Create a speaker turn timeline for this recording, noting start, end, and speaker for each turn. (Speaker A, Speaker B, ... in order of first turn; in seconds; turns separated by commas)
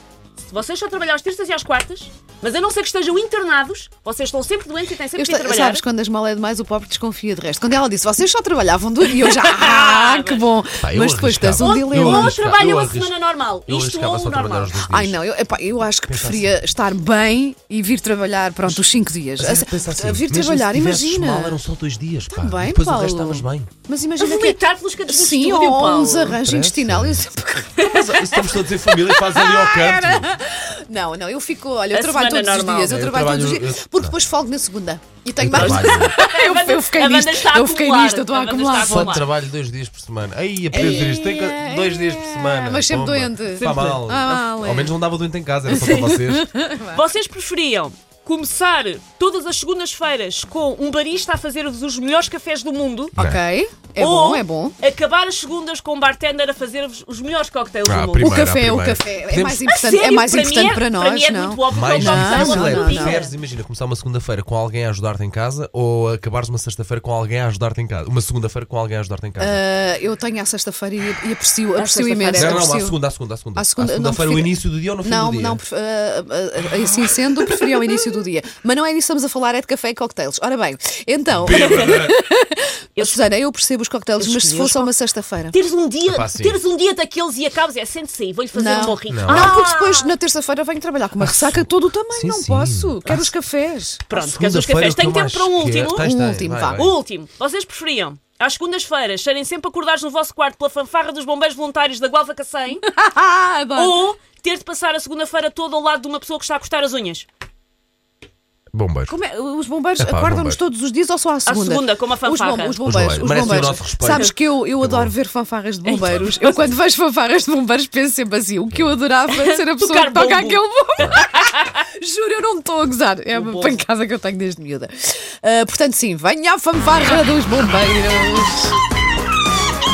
Speaker A: 0.4-5.8, Speaker B: 5.2-12.4, Speaker A: 9.2-10.5, Speaker C: 10.8-15.2, Speaker A: 11.6-14.8, Speaker B: 14.9-21.6, Speaker C: 16.0-16.6, Speaker C: 19.4-23.7, Speaker B: 22.3-39.2, Speaker A: 24.2-26.4, Speaker C: 26.2-27.2, Speaker C: 27.8-30.3, Speaker A: 31.9-33.0, Speaker C: 32.9-34.1, Speaker C: 35.4-36.2, Speaker A: 35.5-39.3, Speaker C: 38.8-46.5, Speaker B: 40.7-45.0, Speaker A: 43.5-44.4, Speaker B: 45.7-47.0, Speaker A: 46.9-53.2, Speaker C: 53.1-53.4, Speaker B: 53.1-54.8, Speaker A: 54.0-58.4, Speaker C: 57.8-59.6, Speaker B: 58.2-63.3, Speaker A: 59.6-63.3, Speaker C: 61.7-69.6, Speaker B: 69.4-73.0, Speaker A: 71.7-72.6, Speaker C: 72.3-75.6, Speaker B: 73.5-85.5, Speaker C: 81.3-82.1, Speaker A: 81.5-82.0, Speaker A: 83.0-83.3, Speaker A: 84.2-84.9, Speaker A: 85.5-90.1, Speaker C: 86.0-86.6, Speaker B: 88.5-94.0, Speaker C: 89.1-89.6, Speaker C: 91.2-93.3, Speaker A: 94.1-96.1, Speaker C: 94.1-96.9, Speaker B: 96.0-96.9, Speaker A: 96.7-102.8, Speaker B: 102.8-104.0, Speaker A: 103.7-107.3, Speaker C: 108.7-109.2, Speaker B: 109.1-128.8, Speaker C: 110.0-110.6, Speaker A: 111.5-114.3, Speaker C: 112.8-115.1, Speaker A: 115.8-116.6, Speaker A: 119.3-121.7, Speaker C: 121.0-121.2, Speaker A: 123.3-123.8, Speaker A: 127.0-127.2